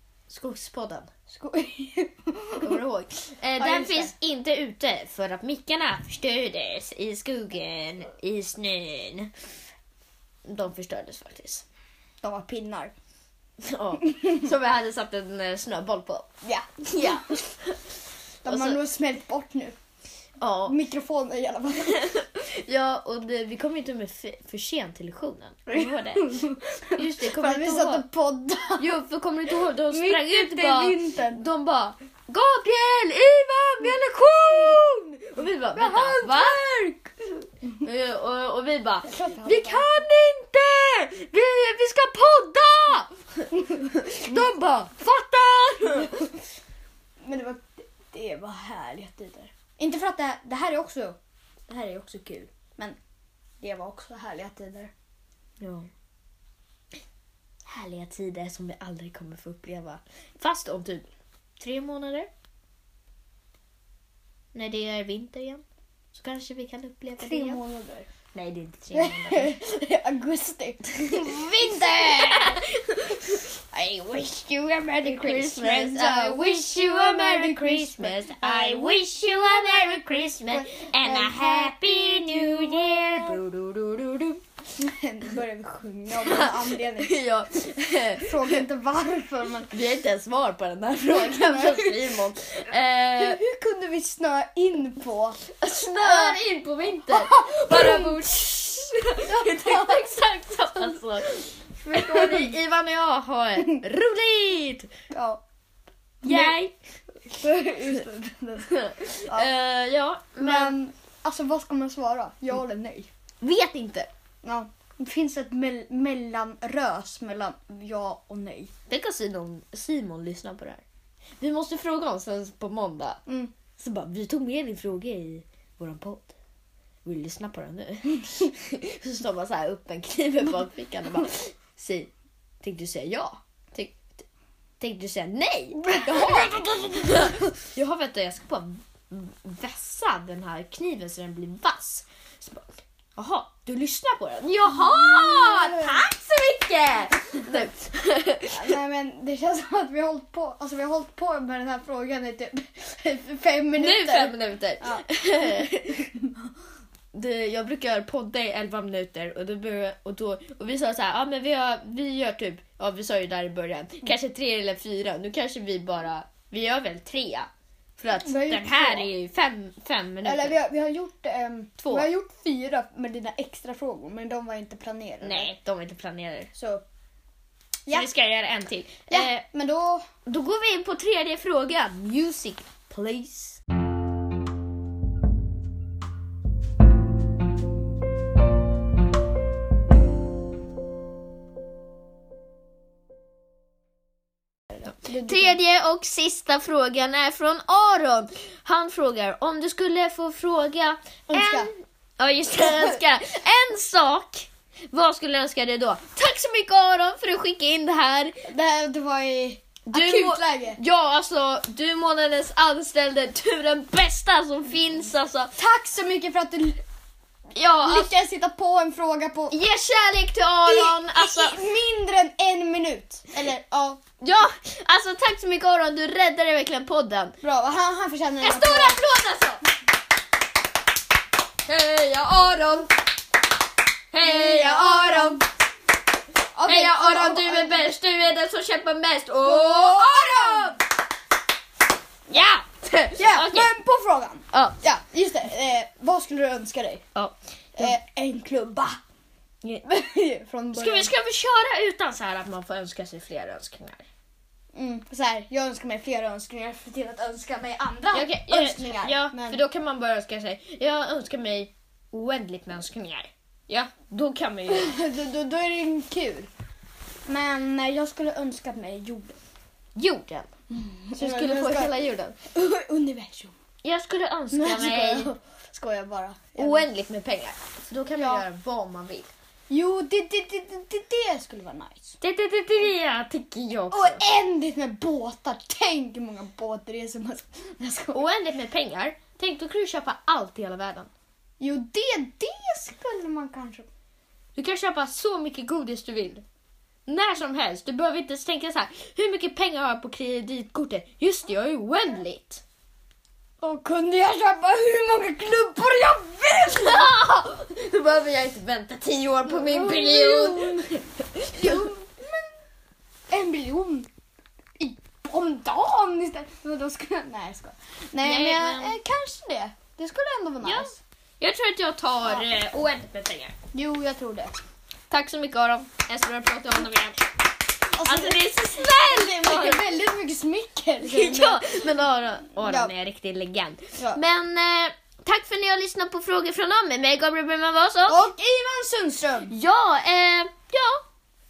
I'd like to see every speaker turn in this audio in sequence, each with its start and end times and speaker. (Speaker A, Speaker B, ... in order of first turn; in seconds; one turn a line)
Speaker A: 0.3-1.1
Speaker B: 1.3-2.8
Speaker A: 2.6-9.3
Speaker B: 3.6-4.1
Speaker A: 10.4-11.6
Speaker B: 12.2-12.9
Speaker A: 13.6-16.3
Speaker B: 16.4-17.4
Speaker A: 16.9-18.8
Speaker B: 18.4-19.8
Speaker A: 20.4-20.8
Speaker B: 20.6-22.1
Speaker A: 21.9-26.4
Speaker B: 25.7-29.0
Speaker A: 26.9-28.1
Speaker A: 28.8-36.6
Speaker B: 29.9-31.4
Speaker B: 35.7-37.0
Speaker A: 37.8-46.2
Speaker B: 39.0-39.9
Speaker B: 47.2-51.2
Speaker B: 51.7-53.0
Speaker B: 53.6-54.9
Speaker A: 55.6-55.9
Speaker A: 57.7-61.1
Speaker A: 61.6-62.3
Speaker A: 64.5-67.6
Speaker B: 67.2-68.1
Speaker A: 68.3-69.6
Speaker B: 68.9-72.6
Speaker A: 71.9-73.5
Speaker B: 73.7-79.0
Speaker A: 75.0-84.4
Speaker B: 80.5-83.4
Speaker B: 84.8-87.1
Speaker A: 86.2-88.6
Speaker B: 88.2-89.8
Speaker A: 89.7-93.4
Speaker B: 91.1-92.0
Speaker B: 93.1-96.4
Speaker A: 95.5-104.9
Speaker B: 97.1-98.2
Speaker B: 99.2-100.1
Speaker B: 101.8-102.5
Speaker B: 105.1-105.4
Speaker B: 106.2-106.6
Speaker A: 106.2-106.7
Speaker B: 107.3-109.5
Speaker A: 108.7-110.8
Speaker B: 110.4-113.1
Speaker A: 113.4-114.1
Speaker B: 114.4-118.7
Speaker A: 118.9-120.8
Speaker A: 121.4-123.2
Speaker B: 123.3-123.5
Speaker A: 123.8-126.3
Speaker A: 127.0-132.1
Speaker A: 132.6-134.2
Speaker A: 134.8-148.8
Speaker B: 135.8-136.9
Speaker B: 144.7-146.0
Speaker B: 148.5-155.0
Speaker A: 153.8-156.1
Speaker A: 157.1-170.6
Speaker B: 168.2-169.1
Speaker B: 170.2-175.5
Speaker A: 171.8-172.1
Speaker A: 175.2-176.5
Speaker B: 176.5-176.8
Speaker A: 177.9-179.4
Speaker B: 179.1-180.0
Speaker A: 180.2-183.6
Speaker B: 194.7-195.6
Speaker A: 194.8-208.4
Speaker B: 201.3-201.7
Speaker B: 202.7-202.9
Speaker B: 208.5-210.8
Speaker A: 209.9-215.5
Speaker B: 215.6-216.8
Speaker A: 217.5-218.1
Speaker B: 217.8-219.5
Speaker A: 219.5-221.6
Speaker B: 220.6-224.0
Speaker A: 224.2-227.3
Speaker B: 227.4-229.0
Speaker A: 228.4-229.6
Speaker A: 231.7-232.9
Speaker A: 234.1-235.4
Speaker B: 234.2-235.4
Speaker B: 236.5-237.9
Speaker A: 236.6-240.8
Speaker B: 239.4-240.8
Speaker A: 242.3-243.7
Speaker B: 243.2-247.0
Speaker A: 244.5-244.8
Speaker A: 247.1-247.9
Speaker B: 247.8-249.0
Speaker B: 249.8-251.1
Speaker A: 250.7-254.0
Speaker B: 254.7-259.6
Speaker A: 258.1-264.9
Speaker B: 264.7-266.5
Speaker B: 267.3-269.4
Speaker A: 269.9-270.5
Speaker B: 270.7-271.9
Speaker A: 271.1-272.4
Speaker B: 272.5-273.5
Speaker A: 273.8-275.3
Speaker B: 274.5-276.9
Speaker A: 276.6-279.3
Speaker B: 278.1-278.4
Speaker B: 279.7-282.2
Speaker A: 282.2-284.2
Speaker B: 283.9-288.2
Speaker A: 288.1-291.1
Speaker B: 291.6-293.9
Speaker A: 294.5-296.4
Speaker A: 297.1-302.6
Speaker B: 303.6-307.1
Speaker A: 306.8-311.9
Speaker B: 309.4-311.0
Speaker B: 311.6-312.4
Speaker B: 313.3-314.1
Speaker B: 314.8-321.0
Speaker A: 318.2-319.0
Speaker A: 320.6-323.5
Speaker B: 322.2-322.6
Speaker B: 323.7-324.5
Speaker A: 325.1-327.2
Speaker B: 327.9-331.7
Speaker A: 328.0-329.9
Speaker A: 331.0-338.3
Speaker B: 332.6-332.9
Speaker B: 338.1-339.5
Speaker A: 339.5-341.0